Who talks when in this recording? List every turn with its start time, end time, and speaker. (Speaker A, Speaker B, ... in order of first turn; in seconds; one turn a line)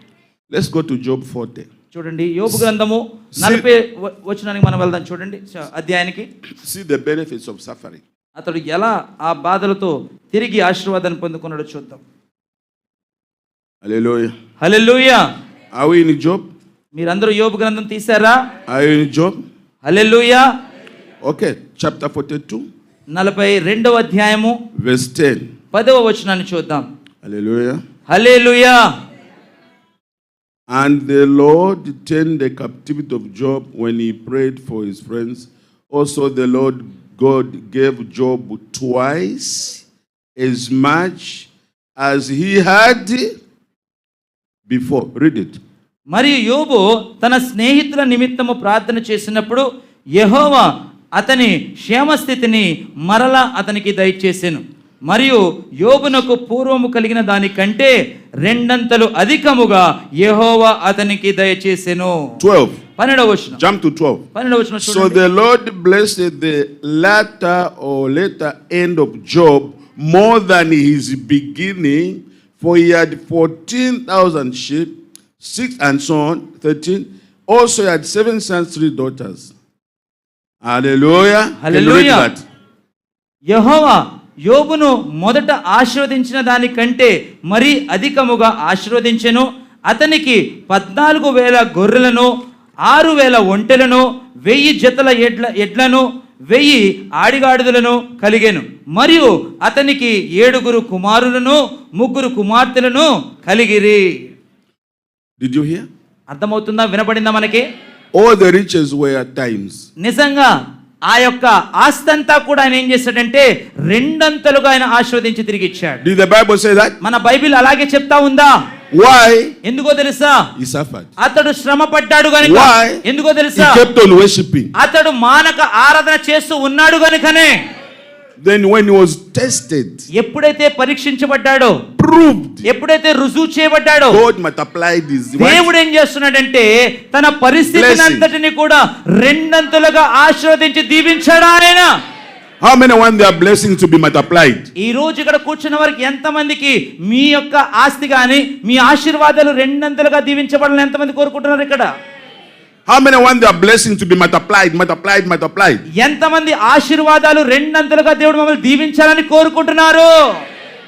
Speaker A: 0.5-1.7
Speaker B: 1.9-6.3
Speaker A: 3.4-3.6
Speaker A: 6.6-8.0
Speaker B: 8.4-12.0
Speaker A: 13.8-14.3
Speaker B: 14.6-15.2
Speaker A: 15.8-16.5
Speaker B: 16.9-18.4
Speaker A: 18.7-19.4
Speaker B: 19.8-20.4
Speaker A: 21.2-22.6
Speaker B: 23.1-24.6
Speaker A: 24.8-25.5
Speaker B: 25.7-26.9
Speaker A: 27.2-27.8
Speaker B: 28.1-28.8
Speaker A: 30.7-39.8
Speaker A: 40.4-43.3
Speaker A: 44.7-45.6
Speaker B: 46.1-49.6
Speaker B: 50.2-62.3
Speaker A: 62.4-62.8
Speaker B: 63.0-63.6
Speaker A: 63.6-64.2
Speaker B: 64.3-65.2
Speaker A: 64.8-79.5
Speaker A: 80.7-82.4
Speaker B: 81.6-82.3
Speaker B: 83.5-92.3
Speaker B: 92.8-104.2
Speaker A: 105.4-105.8
Speaker B: 106.3-107.6
Speaker A: 108.1-109.8
Speaker B: 110.0-110.5
Speaker B: 111.1-116.0
Speaker A: 116.0-117.0
Speaker B: 117.0-118.5
Speaker A: 118.9-119.5
Speaker B: 119.6-120.4
Speaker A: 120.6-121.1
Speaker B: 121.2-123.8
Speaker A: 122.4-123.0
Speaker A: 123.5-124.7
Speaker B: 124.7-127.6
Speaker A: 128.4-130.0
Speaker B: 130.1-131.8
Speaker A: 132.0-132.7
Speaker B: 132.7-134.2
Speaker A: 134.1-135.7
Speaker B: 135.4-141.9
Speaker A: 137.7-138.3
Speaker A: 142.6-144.7
Speaker B: 144.8-151.9
Speaker A: 152.9-155.8
Speaker B: 156.0-160.1